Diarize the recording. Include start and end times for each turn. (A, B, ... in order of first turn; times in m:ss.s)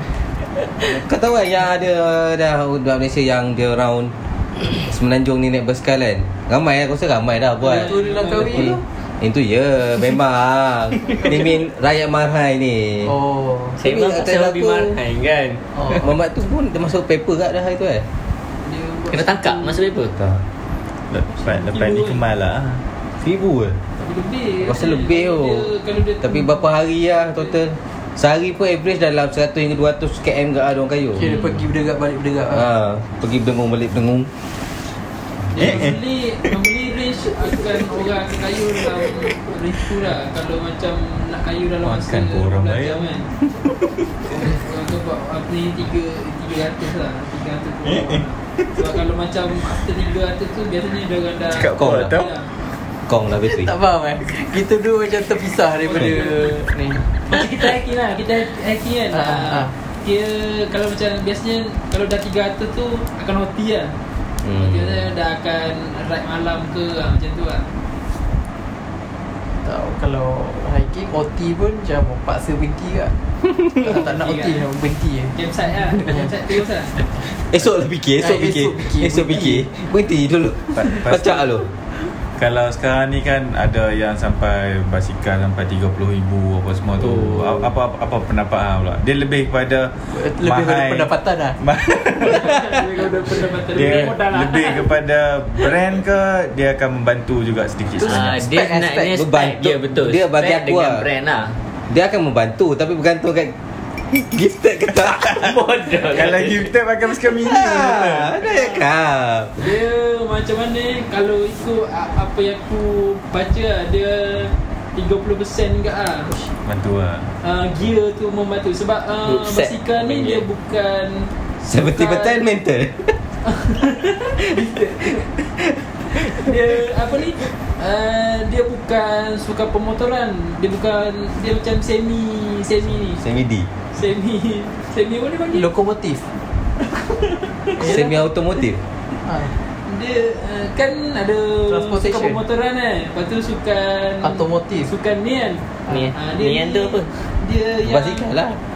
0:00.9-0:04.1 A
0:04.7-0:13.1 A
0:07.6-0:08.7 B
0:07.7-0:08.8 C
0:13.0-0:13.8 C
0:13.8-0:16.0 D
0:13.8-0:15.0 A
0:15.9-0:18.1 A
0:18.6-0:19.9 B
0:19.1-0:20.1 D
0:20.2-0:20.4 A
0:21.1-0:22.8 E
0:21.3-0:22.2 B
0:23.2-0:23.8 A
0:24.0-0:26.7 B
0:24.6-0:25.7 A
0:26.2-0:31.5 A
0:31.2-0:32.7 C
0:32.5-0:34.3 A
0:35.5-0:43.3 B
0:35.6-0:36.5 E
0:41.8-0:43.2 E
0:44.3-0:52.5 B
0:47.9-0:48.2 E
0:51.5-0:52.3 E
0:51.7-0:52.2 A
0:53.1-0:53.7 A
0:53.4-0:57.0 C
0:55.8-0:56.6 B
0:57.2-1:03.9 B
0:59.1-0:59.7 C
1:04.4-1:05.1 A
1:04.6-1:07.7 B
1:09.6-1:13.1 C
1:13.8-1:15.3 C
1:13.8-1:14.6 B
1:15.4-1:17.0 B
1:16.0-1:16.3 C
1:17.5-1:21.7 A
1:18.2-1:19.7 C
1:20.7-1:21.5 E
1:22.4-1:32.8 E
1:27.0-1:27.7 D
1:30.1-1:31.6 C
1:32.2-1:34.8 B
1:33.7-1:38.4 E
1:33.8-1:34.1 D
1:38.0-1:39.2 C
1:38.0-1:41.6 D
1:39.1-1:41.0 A
1:41.9-1:43.5 A
1:44.1-1:45.6 A
1:45.0-1:45.5 E
1:45.3-1:46.7 D
1:46.1-1:48.4 E
1:47.3-1:49.6 A
1:48.5-1:48.8 B
1:49.6-1:56.4 B
1:56.7-1:57.3 E
1:57.4-2:02.4 B
1:59.2-2:00.5 D
2:01.6-2:03.2 A
2:03.5-2:05.3 B
2:06.1-2:06.5 A
2:06.2-2:13.2 B
2:12.8-2:13.7 A
2:13.9-2:15.7 B
2:15.5-2:16.3 C
2:17.0-2:18.0 B
2:17.8-2:18.2 C
2:17.8-2:18.8 A
2:19.2-2:19.5 C
2:19.9-2:28.3 B
2:21.7-2:22.4 C
2:24.2-2:24.9 C
2:25.9-2:27.1 D
2:27.8-2:28.6 A